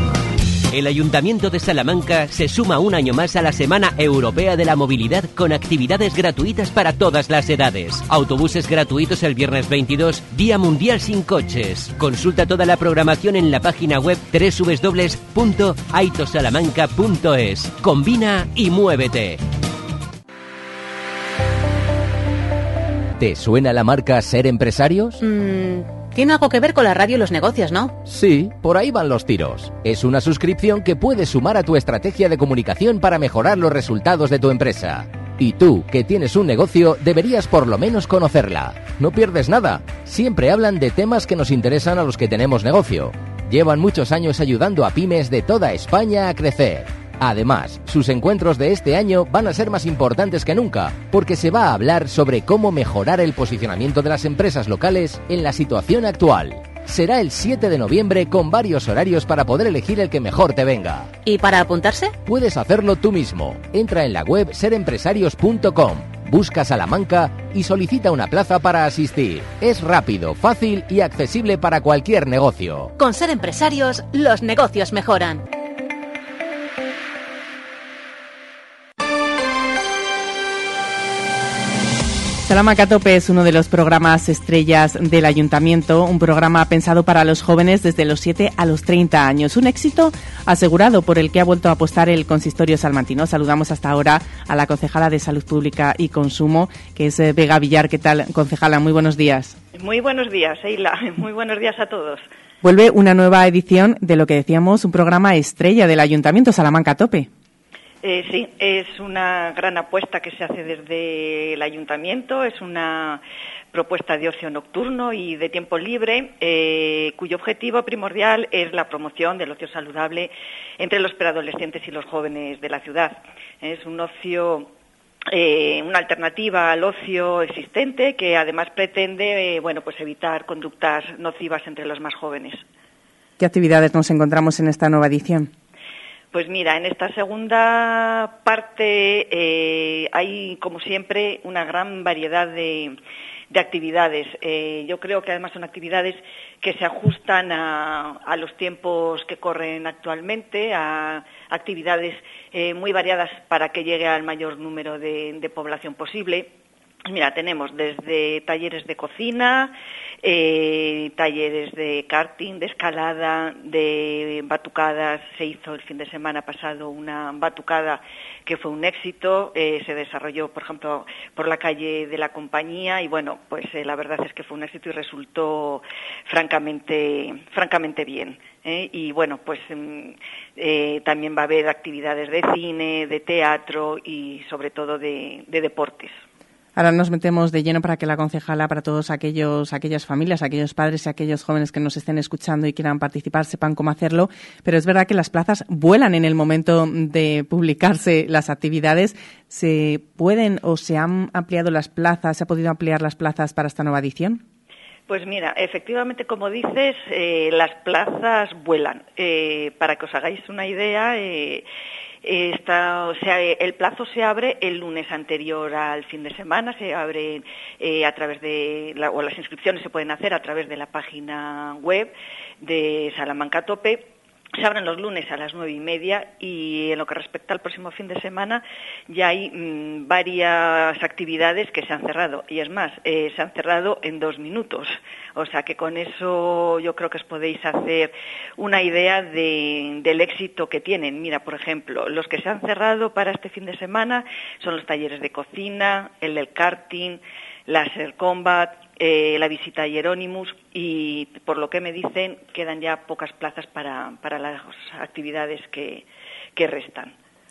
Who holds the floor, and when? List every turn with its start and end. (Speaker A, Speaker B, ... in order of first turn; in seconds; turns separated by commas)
Speaker A: 0.8-19.4, Speaker B: 23.2-25.2, Speaker C: 25.2-28.0, Speaker B: 28.1-61.1, Speaker C: 61.2-62.1, Speaker B: 62.2-72.9, Speaker C: 73.0-75.4, Speaker D: 82.4-99.5, Speaker E: 99.8-102.2, Speaker D: 102.6-107.3, Speaker E: 108.0-113.2, Speaker E: 113.7-124.7, Speaker E: 125.3-132.6, Speaker D: 133.4-135.5, Speaker E: 136.3-142.9, Speaker E: 143.5-156.5, Speaker E: 157.1-186.2, Speaker D: 186.8-204.4, Speaker E: 205.1-211.6, Speaker E: 212.2-224.1, Speaker E: 224.6-256.0, Speaker E: 256.6-257.1